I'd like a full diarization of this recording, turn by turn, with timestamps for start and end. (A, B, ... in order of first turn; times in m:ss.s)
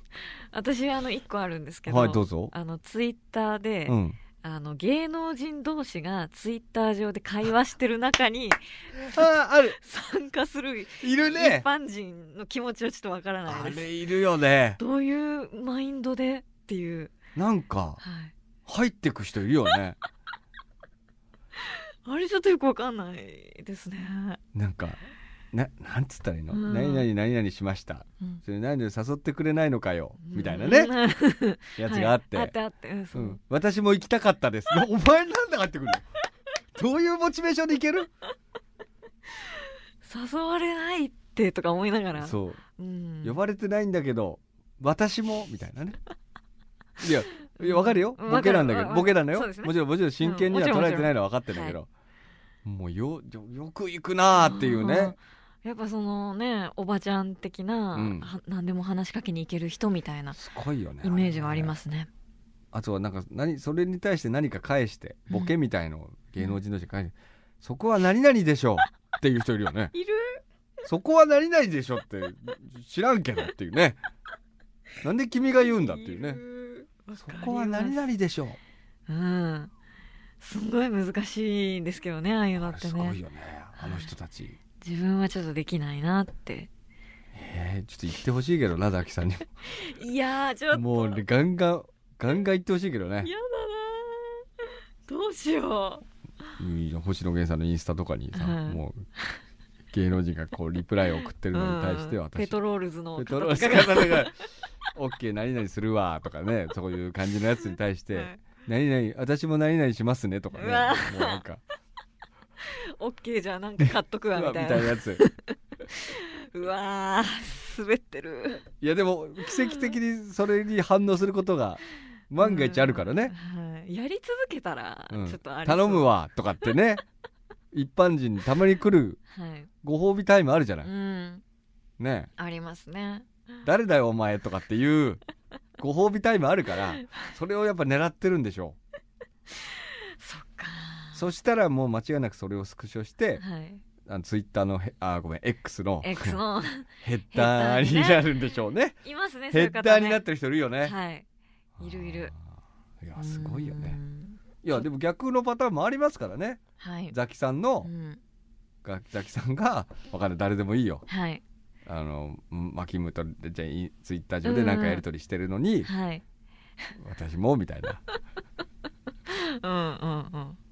0:00.5-0:08.6 A
0:01.9-0:02.5 B
0:03.9-0:04.2 B
0:09.0-0:09.8 B
0:09.7-0:13.8 A
0:11.0-0:11.6 B
0:13.4-0:14.8 B
0:14.8-0:17.1 A
0:17.3-0:18.0 B
0:18.0-0:18.3 A
0:18.7-0:20.0 B
0:21.6-0:24.4 A
0:24.5-0:30.9 B
0:26.5-0:27.0 A
0:30.2-0:33.4 A
0:31.8-0:32.6 B
0:33.1-0:36.0 B
0:36.7-0:38.1 B
0:39.4-0:43.4 A
0:42.2-0:42.6 B
0:43.2-0:46.0 B
0:47.0-0:51.9 B
0:47.6-0:51.8 A
0:52.6-0:55.2 B
0:54.3-1:00.4 A
0:57.9-0:58.3 B
1:00.3-1:01.7 B
1:01.0-1:02.1 A
1:02.7-1:09.9 B
1:09.9-1:10.4 A
1:10.8-1:14.0 B
1:15.0-1:16.4 B
1:15.6-1:18.0 A
1:17.1-1:18.6 B
1:19.1-1:19.7 A
1:20.4-1:23.2 A
1:22.6-1:24.6 B
1:23.8-1:24.1 A
1:24.8-1:26.7 A
1:27.3-1:29.5 B
1:29.6-1:31.2 A
1:30.7-1:33.3 B
1:33.2-1:36.0 A
1:36.6-1:39.0 B
1:38.3-1:39.4 A
1:39.9-1:42.6 B
1:41.5-1:44.4 A
1:43.2-1:44.3 B
1:44.9-1:51.6 B
1:47.7-1:48.4 A
1:50.5-1:51.4 A
1:52.6-1:58.6 A
1:53.8-1:55.2 B
1:58.8-2:03.3 B
1:59.4-1:59.9 A
2:02.4-2:06.1 A
2:05.1-2:07.0 B
2:07.7-2:09.2 B
2:09.3-2:09.7 A
2:09.8-2:10.9 B
2:10.8-2:11.4 A
2:12.0-2:12.3 B
2:12.4-2:13.3 A
2:13.6-2:15.2 B
2:15.8-2:18.8 B
2:19.5-2:21.2 A
2:21.1-2:23.4 B
2:23.4-2:23.8 A
2:24.0-2:26.4 B
2:26.0-2:28.3 A
2:27.0-2:30.9 B
2:29.0-2:30.2 A
2:30.8-2:31.2 A
2:31.8-2:32.4 B
2:31.8-2:32.3 A
2:33.0-2:34.0 B
2:33.2-2:34.4 A
2:34.6-2:37.9 B
2:36.8-2:37.1 A
2:37.8-2:38.2 A
2:38.8-2:41.0 B
2:41.1-2:41.4 A
2:41.8-2:45.9 B
2:44.4-2:45.0 A
2:45.8-2:46.2 A
2:46.9-2:48.0 B
2:49.3-2:50.6 A